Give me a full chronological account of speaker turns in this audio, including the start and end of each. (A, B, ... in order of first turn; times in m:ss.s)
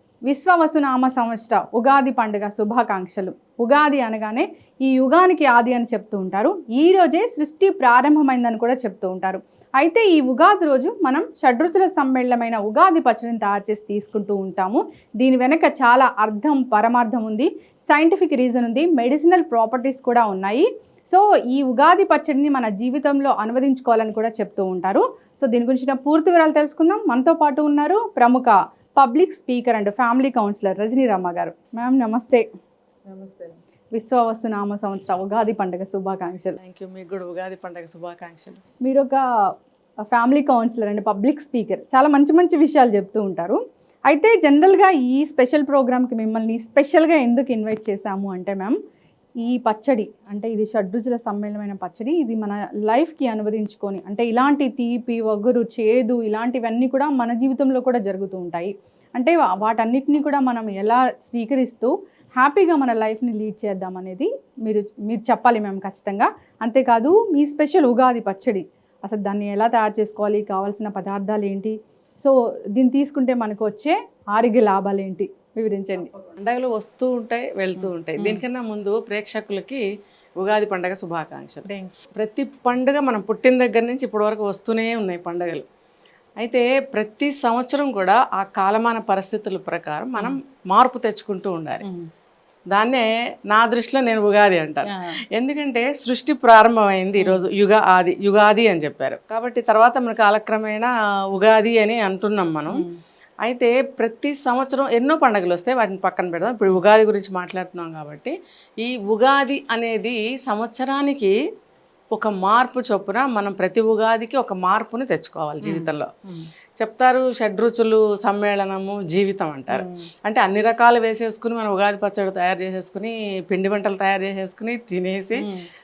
0:00.3-0:32.5 A
0:33.1-0:36.6 A
0:36.6-0:38.6 B
0:38.8-0:39.2 A
0:40.1-0:48.8 A
0:49.4-1:16.1 A
1:16.4-1:19.8 B
1:17.8-1:18.4 A
1:20.4-1:25.6 B
1:21.6-1:22.0 A
1:26.4-1:31.8 B
1:32.7-1:42.8 B
1:34.8-1:35.2 A
1:37.2-1:37.4 A
1:42.7-1:43.0 A
1:43.4-1:51.4 B
1:52.1-1:56.1 B
1:55.6-1:56.5 A
1:56.8-2:05.5 B
1:59.7-2:00.1 A
2:05.4-2:05.6 A